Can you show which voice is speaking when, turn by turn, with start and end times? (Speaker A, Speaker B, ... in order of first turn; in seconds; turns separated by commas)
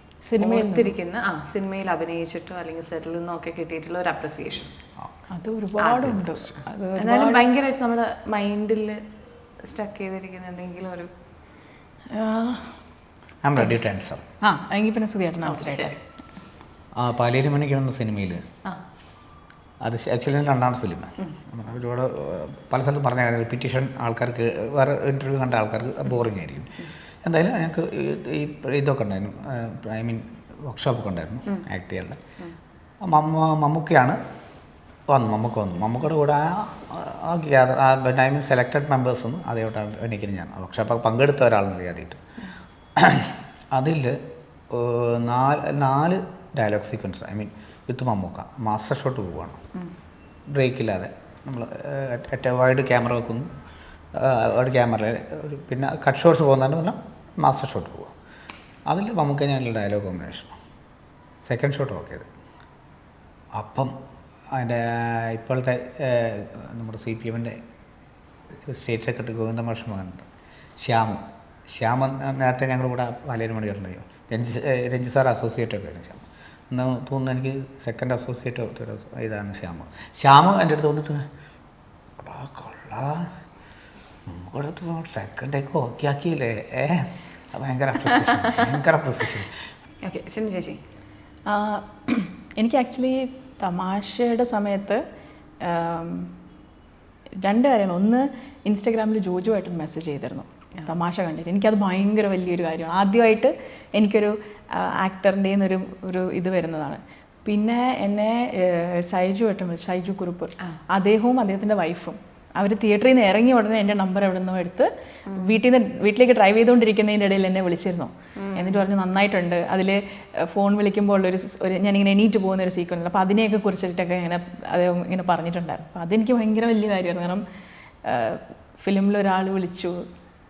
Speaker A: 0.2-0.9, Speaker B: 0.4-4.8, Speaker A: 5.3-7.5, Speaker B: 5.8-6.3, Speaker C: 6.0-6.3, Speaker B: 7.0-9.0, Speaker B: 9.6-11.1, Speaker A: 12.1-12.8, Speaker C: 13.4-14.2, Speaker A: 14.4-16.0, Speaker B: 15.4-16.0, Speaker C: 17.0-18.4, Speaker C: 19.8-32.2, Speaker C: 33.0-34.2, Speaker C: 35.1-42.2, Speaker C: 43.0-44.2, Speaker C: 44.7-49.6, Speaker C: 50.5-53.5, Speaker C: 54.1-58.2, Speaker C: 58.9-60.5, Speaker C: 61.5-62.3, Speaker C: 63.5-63.9, Speaker C: 64.5-67.6, Speaker C: 68.7-70.3, Speaker C: 70.8-81.3, Speaker C: 82.2-83.3, Speaker C: 84.3-89.6, Speaker B: 88.2-88.6, Speaker B: 90.0-90.8, Speaker A: 91.5-95.0, Speaker A: 95.6-96.3, Speaker A: 97.4-127.4, Speaker B: 115.3-115.6, Speaker B: 118.4-118.8, Speaker A: 128.1-130.0